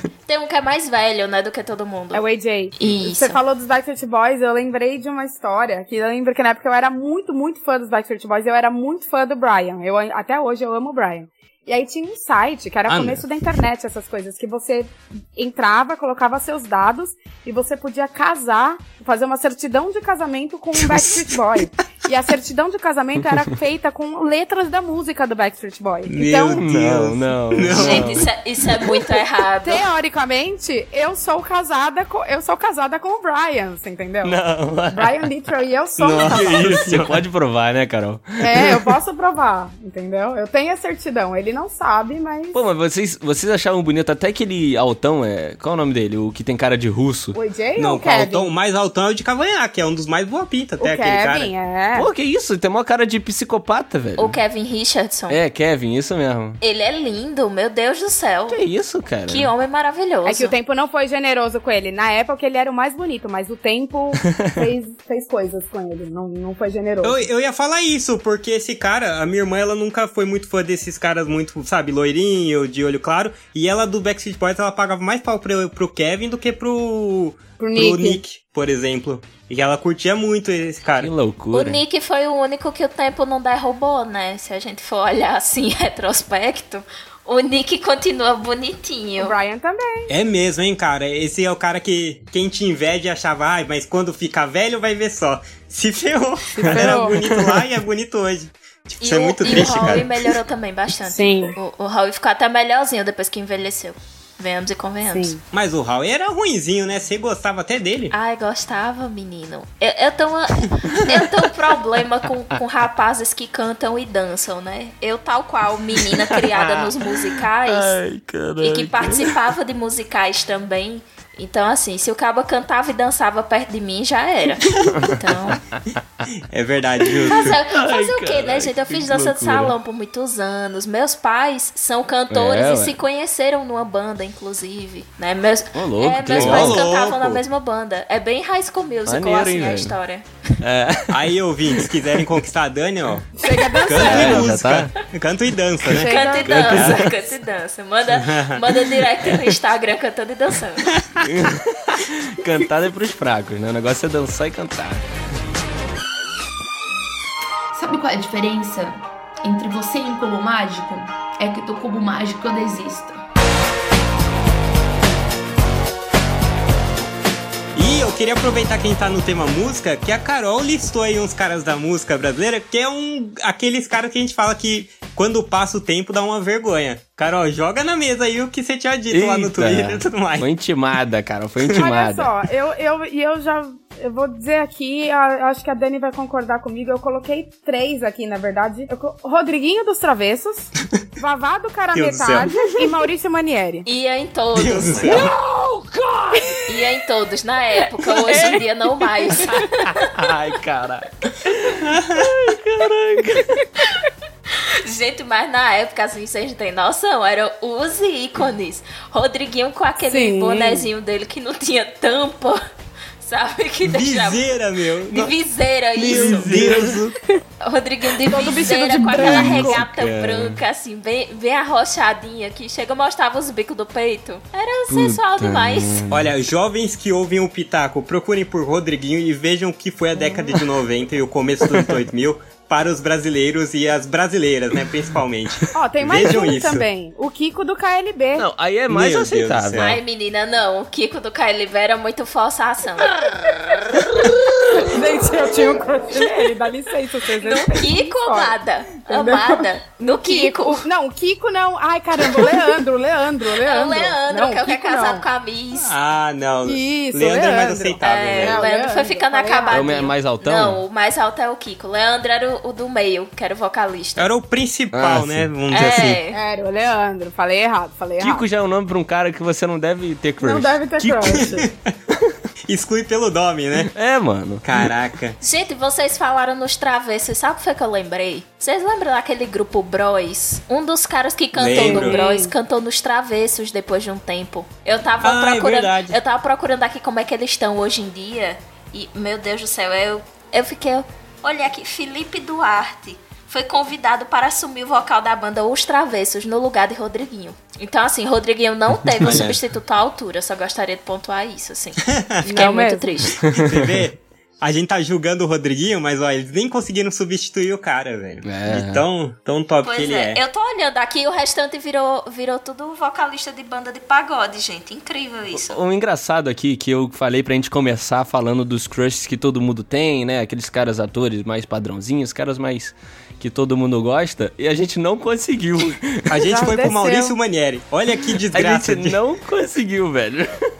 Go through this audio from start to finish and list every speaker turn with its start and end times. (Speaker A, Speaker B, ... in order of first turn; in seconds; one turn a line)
Speaker A: 0.2-2.2
Speaker B: 2.1-26.6
Speaker A: 2.8-3.4
Speaker C: 12.9-13.2
Speaker C: 20.9-21.2
Speaker C: 26.1-28.2
Speaker D: 26.5-28.3
Speaker A: 27.7-29.8
Speaker B: 29.6-36.8
Speaker D: 34.2-35.2
Speaker C: 36.0-37.2
Speaker D: 36.1-38.9
Speaker B: 38.4-42.6
Speaker D: 42.5-47.4
Speaker B: 47.3-48.5
Speaker C: 47.8-51.5
Speaker B: 50.8-52.1
Speaker D: 51.9-54.4
Speaker A: 54.2-55.4
Speaker D: 55.3-56.6
Speaker A: 56.6-58.6
Speaker D: 58.5-59.5
Speaker A: 59.3-60.5
Speaker B: 60.2-67.2
Speaker D: 64.3-64.6
Speaker C: 67.0-81.1
Speaker B: 77.6-78.2
Speaker D: 81.0-81.8
Speaker A: 81.5-89.3
Speaker B: 89.2-90.1
Speaker C: 90.1-100.1
Speaker B: 96.5-97.4
Speaker D: 96.8-97.3
Speaker A: 99.0-105.4
Speaker B: 101.0-101.5
Speaker B: 105.0-105.4
Speaker C: 105.5-108.1
Speaker A: 108.1-118.0
Speaker D: 116.0-117.1
Speaker D: 117.6-119.3
Speaker A: 118.6-125.6
Speaker D: 124.9-125.5
Speaker C: 126.5-127.5
Speaker D: 127.0-129.8
Speaker A: 127.3-140.2
Speaker D: 132.3-133.0
Speaker D: 135.7-136.8
Speaker C: 136.3-137.4
Speaker D: 139.1-139.9
Speaker D: 140.6-141.9
Speaker C: 141.1-146.9
Speaker B: 143.4-144.5
Speaker D: 143.9-144.9
Speaker A: 144.0-144.4
Speaker B: 145.9-146.7
Speaker A: 146.0-150.9
Speaker D: 146.4-147.1
Speaker C: 148.2-148.6
Speaker D: 151.2-155.1
Speaker E: 157.7-163.2
Speaker C: 167.7-180.5
Speaker D: 179.1-182.3
Speaker B: 181.8-193.8
Speaker C: 191.9-192.5
Speaker A: 193.8-195.3
Speaker C: 194.5-195.3
Speaker D: 195.1-196.4
Speaker A: 196.7-199.9
Speaker D: 198.1-198.6
Speaker D: 199.5-203.6
Speaker C: 201.9-202.2
Speaker A: 204.8-212.6
Speaker B: 210.0-210.9
Speaker A: 213.2-214.5
Speaker C: 213.8-215.3
Speaker A: 215.1-216.5
Speaker C: 215.9-217.1
Speaker D: 216.1-217.0
Speaker A: 217.6-226.0
Speaker B: 218.2-219.8
Speaker D: 219.1-220.6
Speaker D: 224.9-226.3
Speaker C: 226.1-236.8
Speaker D: 231.6-231.9
Speaker B: 235.7-238.5
Speaker D: 238.3-240.0
Speaker C: 238.9-240.0
Speaker A: 239.8-243.1
Speaker B: 244.7-248.5
Speaker A: 247.4-250.8
Speaker B: 249.1-249.7
Speaker B: 250.2-255.2
Speaker A: 253.6-255.9
Speaker C: 255.8-258.6
Speaker B: 256.6-259.8
Speaker A: 258.0-264.3
Speaker D: 259.7-260.8
Speaker C: 264.2-266.2
Speaker D: 264.9-265.5
Speaker A: 265.7-266.4
Speaker B: 266.3-268.4
Speaker D: 268.2-271.5
Speaker B: 270.4-271.7
Speaker C: 271.4-271.7
Speaker C: 272.7-273.9
Speaker D: 273.9-274.9
Speaker C: 274.6-275.4
Speaker A: 275.4-303.4
Speaker C: 281.5-282.2
Speaker B: 281.7-282.5
Speaker C: 285.2-286.2
Speaker C: 299.2-299.6
Speaker C: 302.1-302.5
Speaker B: 302.4-303.1
Speaker C: 303.4-310.4
Speaker D: 303.6-304.0
Speaker D: 308.4-309.0
Speaker A: 309.8-315.8
Speaker D: 315.5-326.3
Speaker C: 326.3-329.2
Speaker B: 326.4-327.4
Speaker D: 328.5-330.6